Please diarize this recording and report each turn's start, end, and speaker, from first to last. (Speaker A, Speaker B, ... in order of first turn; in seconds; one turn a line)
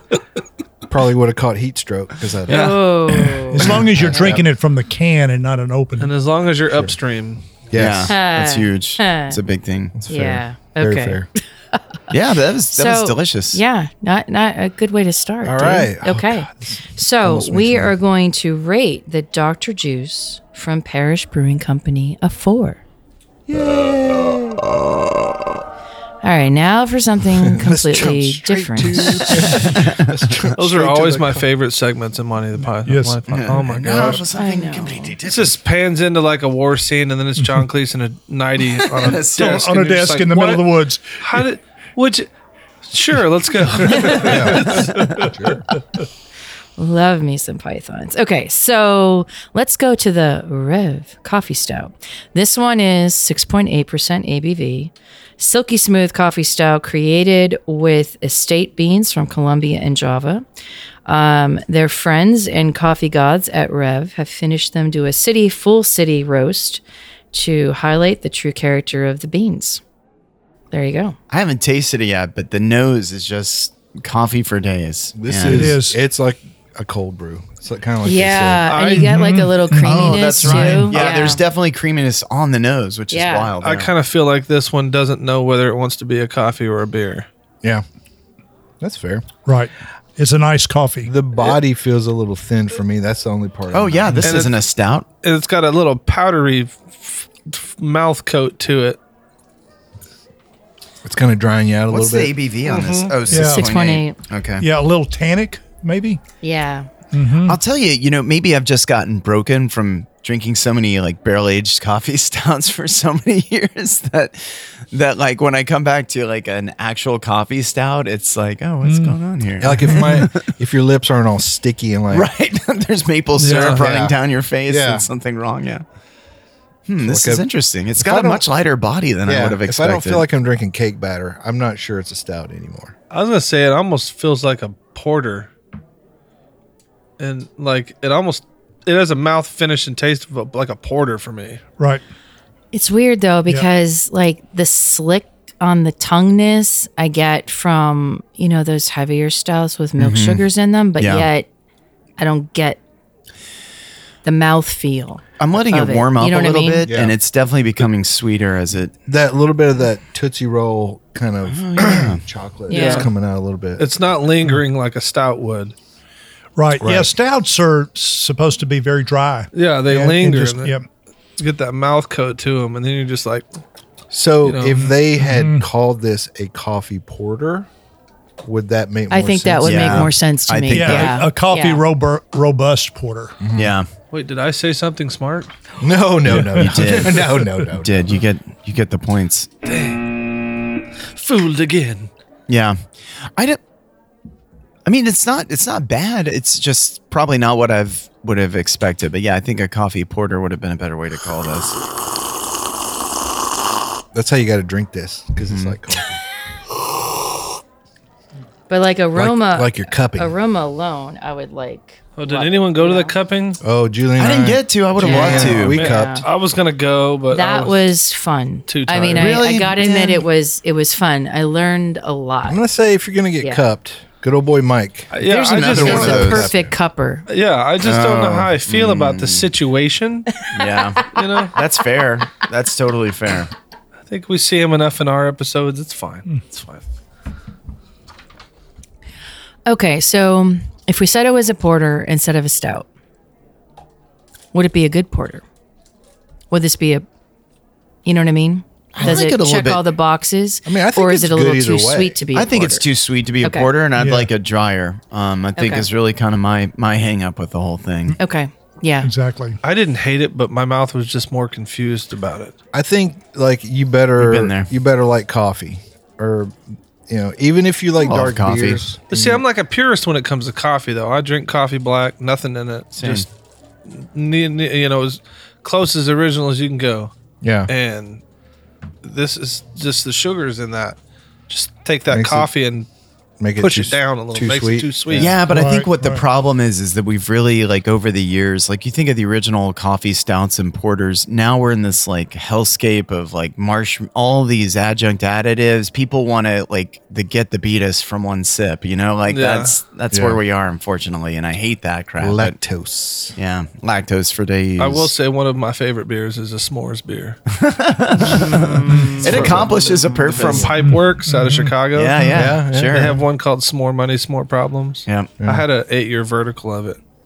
Speaker A: 0.9-2.8
Speaker B: 2.5-2.8
Speaker C: 2.5-3.8
Speaker D: 3.1-6.1
Speaker A: 3.6-4.4
Speaker E: 6.0-7.4
Speaker A: 7.7-8.2
Speaker B: 7.7-9.9
Speaker C: 8.1-9.4
Speaker A: 9.9-11.3
Speaker C: 10.1-11.8
Speaker B: 12.1-13.6
Speaker C: 12.7-22.8
Speaker A: 15.4-17.9
Speaker A: 23.5-24.6
Speaker C: 26.2-29.6
Speaker A: 27.4-31.4
Speaker B: 29.4-30.5
Speaker E: 30.5-34.2
Speaker D: 32.8-33.3
Speaker B: 33.3-35.6
Speaker A: 33.8-34.2
Speaker C: 34.3-35.1
Speaker E: 35.2-42.3
Speaker B: 38.9-39.6
Speaker D: 39.3-41.4
Speaker E: 42.9-45.3
Speaker A: 44.1-45.6
Speaker B: 44.8-45.1
Speaker C: 46.8-60.4
Speaker C: 61.0-69.8
Speaker C: 70.7-71.2
Speaker B: 71.3-75.8
Speaker A: 75.1-78.7
Speaker D: 75.4-76.0
Speaker C: 78.0-81.4
Speaker E: 78.7-79.2
Speaker D: 78.9-81.0
Speaker B: 79.8-83.9
Speaker C: 83.1-83.5
Speaker E: 83.6-87.3
Speaker A: 88.8-89.3
Speaker D: 89.4-91.1
Speaker A: 91.0-94.4
Speaker B: 93.7-95.0
Speaker E: 94.2-94.6
Speaker E: 95.2-99.0
Speaker A: 101.0-102.3
Speaker B: 101.9-104.6
Speaker E: 102.6-103.1
Speaker D: 103.3-103.7
Speaker C: 103.3-104.2
Speaker D: 104.6-106.2
Speaker C: 106.4-106.9
Speaker D: 107.1-107.6
Speaker B: 107.4-120.5
Speaker D: 118.8-119.2
Speaker A: 119.6-122.3
Speaker D: 119.8-120.2
Speaker B: 122.1-125.8
Speaker E: 123.4-123.8
Speaker A: 123.6-125.0
Speaker B: 126.9-130.2
Speaker A: 127.0-128.4
Speaker A: 129.2-132.9
Speaker E: 133.1-135.5
Speaker E: 137.2-141.6
Speaker C: 142.7-151.5
Speaker B: 150.0-150.4
Speaker B: 151.0-151.3
Speaker C: 152.2-152.8
Speaker C: 154.2-156.9
Speaker B: 155.4-158.9
Speaker A: 156.8-157.2
Speaker A: 159.1-163.9
Speaker B: 161.4-162.2
Speaker C: 162.7-163.1
Speaker E: 162.7-163.1
Speaker E: 163.8-165.7
Speaker D: 166.6-170.9
Speaker A: 166.8-167.1
Speaker E: 169.5-170.7
Speaker E: 171.4-173.5
Speaker A: 174.1-177.7
Speaker E: 174.4-174.9
Speaker D: 175.2-175.7
Speaker A: 178.4-180.1
Speaker C: 179.1-181.8
Speaker B: 179.6-181.2
Speaker D: 180.7-183.4
Speaker A: 183.4-183.7
Speaker B: 183.5-183.9
Speaker E: 184.1-185.5
Speaker A: 185.8-188.0
Speaker D: 186.3-187.0
Speaker B: 186.5-189.5
Speaker E: 189.6-190.2
Speaker E: 191.1-192.1
Speaker B: 192.5-192.8
Speaker B: 194.8-201.8
Speaker A: 204.1-206.2
Speaker B: 205.5-205.8
Speaker C: 208.7-213.1
Speaker A: 209.1-210.3
Speaker E: 212.2-213.6
Speaker A: 213.6-216.2
Speaker B: 214.2-215.7
Speaker C: 215.0-216.3
Speaker E: 215.1-217.9
Speaker C: 217.3-222.6
Speaker E: 218.7-219.4
Speaker B: 219.1-220.2
Speaker A: 222.4-225.1
Speaker E: 225.1-226.4
Speaker C: 225.2-227.2
Speaker B: 225.5-226.5
Speaker A: 225.7-226.7
Speaker E: 227.3-230.4
Speaker B: 227.8-229.5
Speaker B: 230.5-233.5
Speaker E: 231.1-231.6
Speaker E: 234.1-236.8
Speaker C: 239.7-242.9
Speaker C: 244.5-245.4
Speaker C: 246.5-247.0
Speaker C: 248.0-252.8
Speaker B: 248.9-249.8
Speaker A: 248.9-249.3
Speaker A: 250.7-252.2
Speaker B: 252.3-258.2
Speaker C: 253.4-253.7
Speaker D: 253.9-254.3
Speaker C: 255.6-255.9
Speaker C: 258.2-259.1
Speaker D: 259.0-259.6
Speaker E: 259.6-262.5
Speaker A: 262.7-266.6
Speaker B: 264.2-264.7
Speaker A: 267.1-269.4
Speaker B: 268.0-268.8
Speaker E: 269.1-273.3
Speaker B: 272.9-273.3
Speaker E: 273.9-277.1
Speaker A: 277.4-277.7
Speaker E: 277.7-278.2
Speaker E: 279.0-281.0
Speaker E: 281.5-282.9
Speaker A: 282.1-282.5
Speaker A: 283.4-285.4
Speaker E: 283.6-285.3
Speaker B: 285.1-302.6
Speaker D: 285.4-286.2
Speaker E: 299.3-299.7
Speaker A: 300.1-300.4
Speaker A: 302.2-303.3
Speaker B: 303.3-305.1
Speaker E: 304.8-307.4
Speaker B: 307.5-310.7
Speaker D: 308.8-309.3
Speaker A: 309.0-310.8
Speaker E: 309.2-312.2
Speaker D: 310.8-312.6
Speaker B: 311.9-313.2
Speaker A: 312.3-313.1
Speaker E: 312.7-317.0
Speaker A: 315.4-315.6